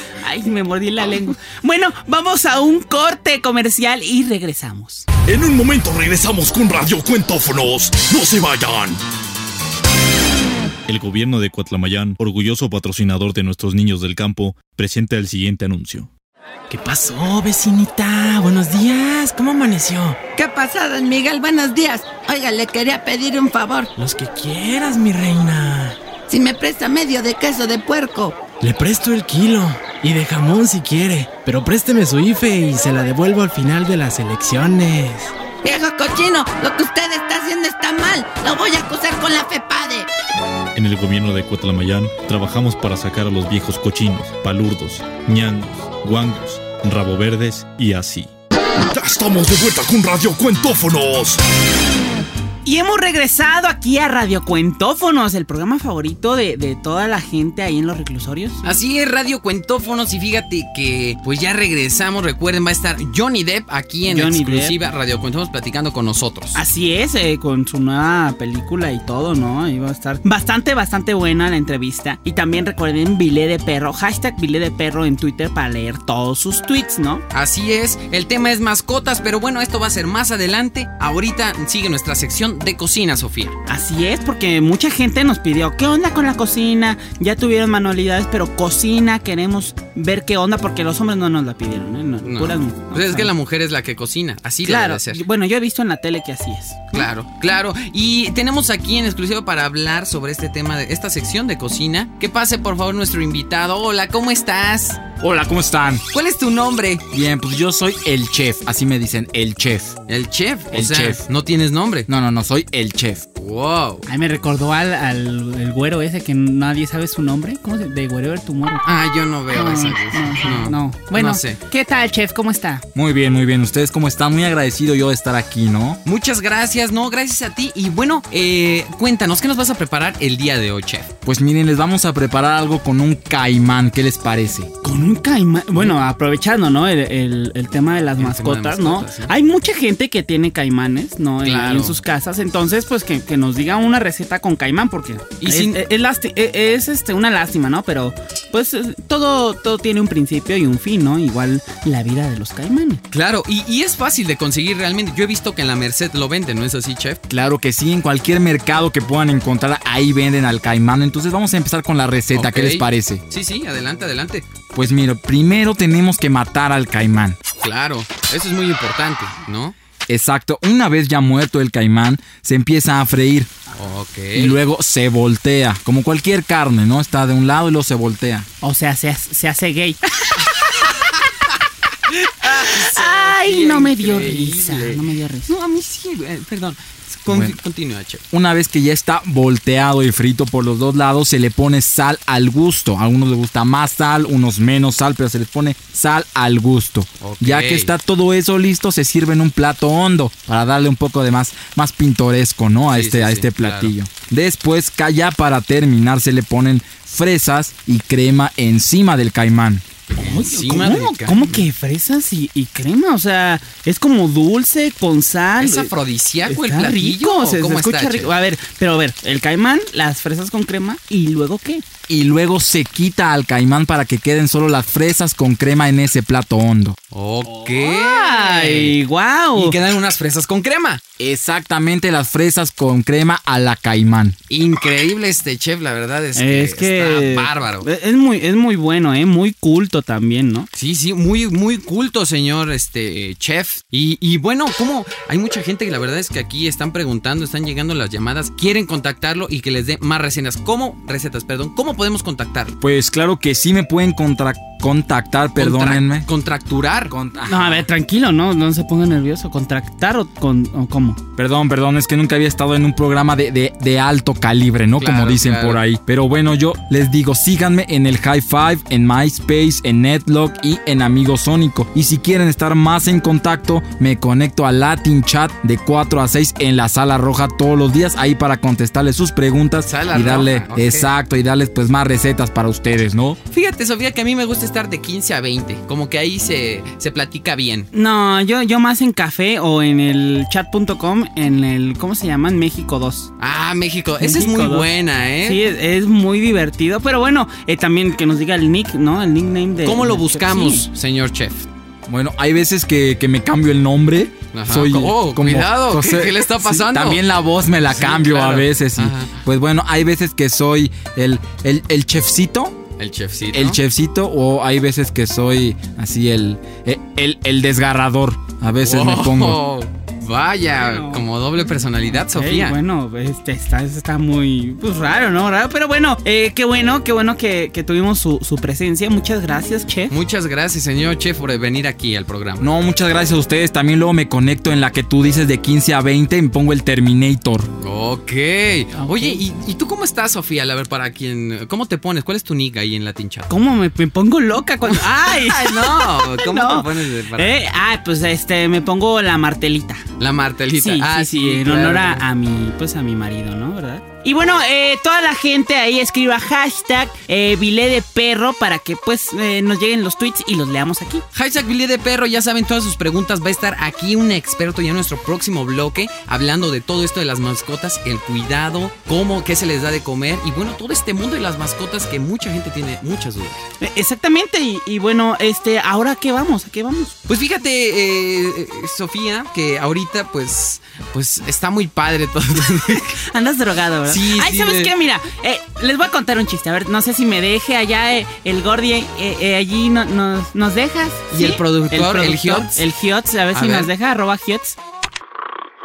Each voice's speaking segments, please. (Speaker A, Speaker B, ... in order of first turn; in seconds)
Speaker A: 0.2-5.0, 52.6-58.7, 64.1-64.7, 66.5-77.2, 83.7-93.3, 94.6-97.1, 114.1-118.8, 119.5-122.8, 134.8-153.0, 178.6-180.0, 182.4-185.5, 210.2-215.9, 216.5-221.8, 227.5-229.8, 236.3-240.7, 257.4-261.2, 287.9-293.3, 294.2-294.9, 295.4-300.9, 320.7-321.2, 322.2-330.1, 339.0-339.4, 343.5-350.0, 350.7-361.2, 373.8-377.1, 383.2-394.8
Speaker B: 5.3-9.0, 48.9-51.4
Speaker C: 10.9-16.1, 40.7-48.3
Speaker D: 16.7-20.2, 24.0-26.0, 28.6-35.3
Speaker E: 20.3-23.9, 26.3-28.4, 35.6-40.1
Speaker F: 58.6-66.6, 77.3-83.5, 92.2-95.2, 96.9-105.0, 106.1-107.0, 110.1-112.1, 113.4-114.0, 118.8-121.6, 126.0-131.1, 138.2-139.3, 141.4-142.0, 145.4-145.8, 153.1-157.2, 162.3-164.5, 167.6-169.7, 173.7-174.6, 182.4-188.2, 197.2-197.9, 202.9-203.9, 210.2-211.6, 215.6-218.3, 227.1-228.9, 229.5-231.0, 234.5-237.9, 240.7-252.8, 255.6-257.1, 265.0-265.8, 279.8-281.1, 283.5-287.9, 293.4-295.6, 299.8-301.7, 304.5-307.3, 307.9-309.3, 313.0-313.8, 318.8-322.8, 330.1-332.6, 337.8-343.5, 344.9-347.6, 350.2-352.2, 361.3-373.6, 377.3-383.2, 384.1-384.9, 391.3-392.8, 393.5-393.9
Speaker G: 105.2-106.0, 107.1-110.0, 110.7-111.2, 112.1-113.2, 122.9-126.0, 131.2-134.7, 157.3-163.2, 164.7-167.4, 170.1-173.5, 174.3-178.5, 187.3-187.6, 188.3-209.8, 222.1-227.0, 231.2-234.3, 252.8-256.2, 257.1-257.9, 261.4-283.4, 302.1-312.8, 313.5-319.6, 332.6-337.7